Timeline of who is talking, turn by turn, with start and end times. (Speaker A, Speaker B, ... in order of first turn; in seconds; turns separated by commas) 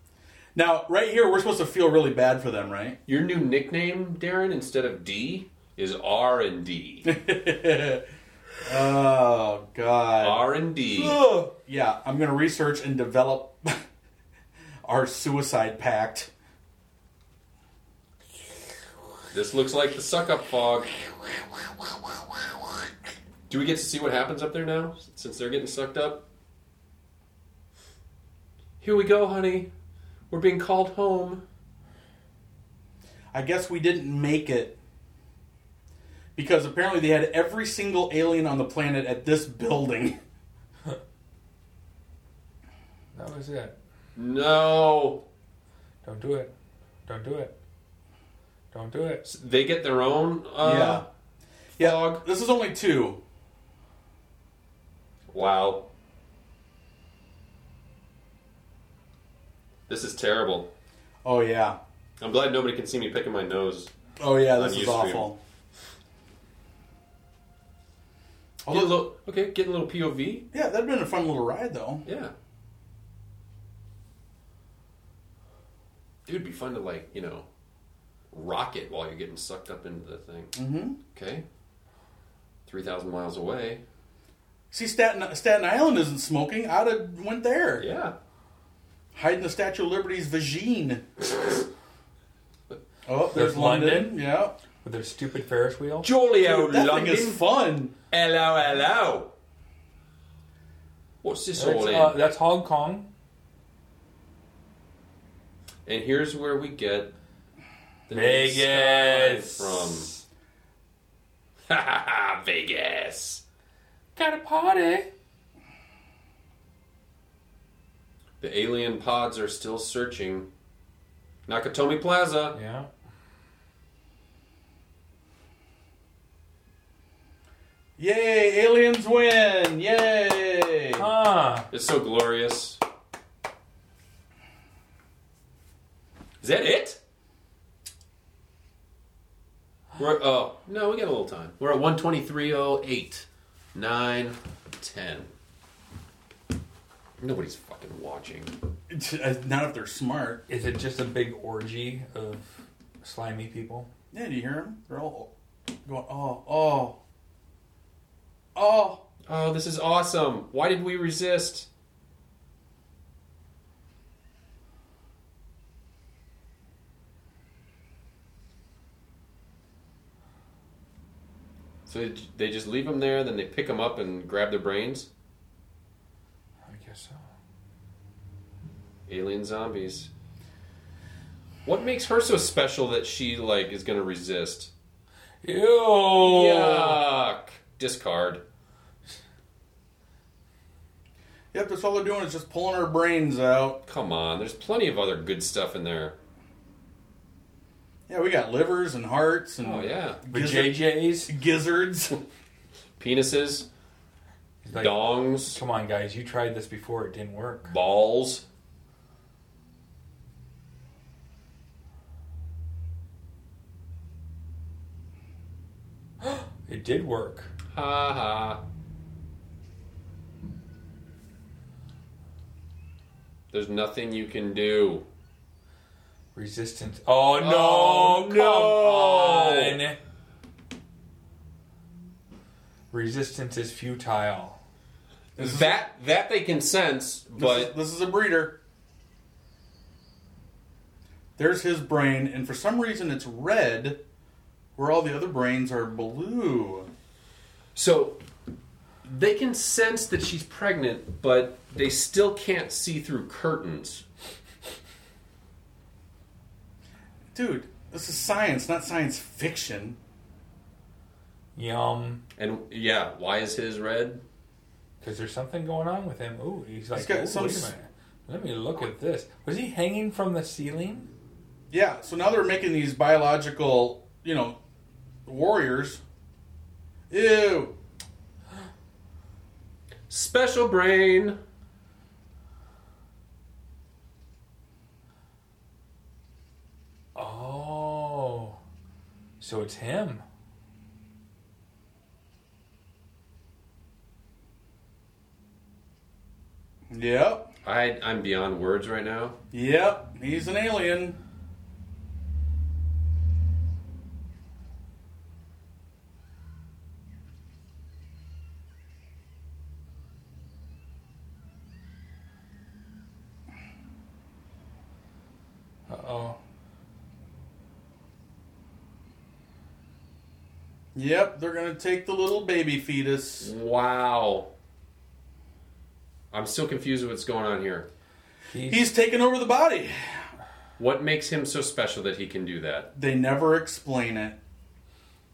Speaker A: 0.5-3.0, Speaker B: 3.1-7.0, Speaker A: 7.0-8.0, Speaker A: 8.6-10.4, Speaker B: 10.2-11.2, Speaker C: 10.9-11.5, Speaker A: 11.7-13.8, Speaker A: 14.8-16.3, Speaker B: 19.3-21.0, Speaker B: 23.5-26.2, Speaker B: 28.8-29.7, Speaker B: 30.3-31.4, Speaker A: 33.3-34.8, Speaker A: 36.4-40.2, Speaker C: 43.1-43.8, Speaker B: 44.1-45.2, Speaker C: 46.0-46.5, Speaker C: 47.1-47.5, Speaker C: 48.7-49.2, Speaker B: 49.2-51.0, Speaker A: 50.6-51.0, Speaker B: 51.8-52.2, Speaker A: 51.8-53.2, Speaker B: 55.3-55.9, Speaker B: 59.9-60.7, Speaker A: 61.2-61.8, Speaker B: 62.2-63.9, Speaker A: 64.2-65.4, Speaker B: 64.5-65.3, Speaker B: 68.7-70.5, Speaker A: 68.7-69.0, Speaker A: 70.5-72.0, Speaker B: 72.0-72.3, Speaker B: 76.2-77.5, Speaker B: 78.3-81.4, Speaker A: 80.5-81.0, Speaker B: 82.7-83.8, Speaker A: 84.7-87.8, Speaker B: 87.8-88.1, Speaker A: 89.1-91.0, Speaker A: 93.0-94.5, Speaker C: 93.3-94.2, Speaker C: 94.8-96.1, Speaker B: 96.0-97.4, Speaker A: 96.4-97.9, Speaker B: 98.1-99.3, Speaker B: 101.2-102.2, Speaker C: 101.5-103.1, Speaker B: 105.8-107.1, Speaker B: 108.1-110.1, Speaker C: 108.1-110.2, Speaker B: 111.7-113.4, Speaker C: 114.2-115.1, Speaker B: 118.4-120.5, Speaker B: 121.5-122.6, Speaker C: 122.5-122.9, Speaker A: 128.0-131.1, Speaker C: 131.0-131.7, Speaker B: 131.7-132.8, Speaker B: 136.4-137.0, Speaker B: 139.9-145.3, Speaker B: 147.2-148.5, Speaker A: 148.9-150.4, Speaker C: 150.5-153.9, Speaker A: 154.1-155.3, Speaker A: 155.8-157.0, Speaker A: 158.5-159.0, Speaker B: 159.3-161.7, Speaker B: 171.9-175.1, Speaker C: 176.6-177.2, Speaker B: 179.1-180.1, Speaker B: 181.6-184.7, Speaker C: 185.4-187.0, Speaker B: 186.2-188.4, Speaker A: 191.5-193.8, Speaker B: 193.9-196.2, Speaker A: 198.1-202.2, Speaker B: 199.6-200.2, Speaker C: 200.3-201.3, Speaker B: 203.0-203.7, Speaker C: 204.6-207.7, Speaker B: 204.7-205.6, Speaker B: 207.7-208.4, Speaker C: 216.2-217.5, Speaker B: 217.7-218.6, Speaker B: 223.5-225.1, Speaker C: 226.3-230.0, Speaker B: 227.4-229.8, Speaker C: 232.9-234.6, Speaker A: 235.4-235.8, Speaker B: 235.4-237.7, Speaker A: 237.3-238.6, Speaker A: 241.4-244.0, Speaker A: 244.8-246.9, Speaker B: 247.7-248.2, Speaker B: 249.0-254.0, Speaker A: 257.3-260.0, Speaker C: 261.5-262.2, Speaker B: 262.4-264.2, Speaker C: 265.0-271.1, Speaker A: 266.9-267.7, Speaker A: 271.7-274.6, Speaker A: 275.3-276.0, Speaker A: 277.1-277.7, Speaker B: 280.1-281.4, Speaker C: 287.1-288.6, Speaker C: 289.4-290.2, Speaker A: 296.9-297.5, Speaker B: 297.6-299.4, Speaker A: 299.5-301.2, Speaker C: 315.9-316.4, Speaker A: 320.9-323.5, Speaker B: 323.4-324.5, Speaker B: 326.3-327.9, Speaker C: 328.5-328.9, Speaker A: 328.6-329.9, Speaker B: 330.8-332.9, Speaker A: 332.9-334.4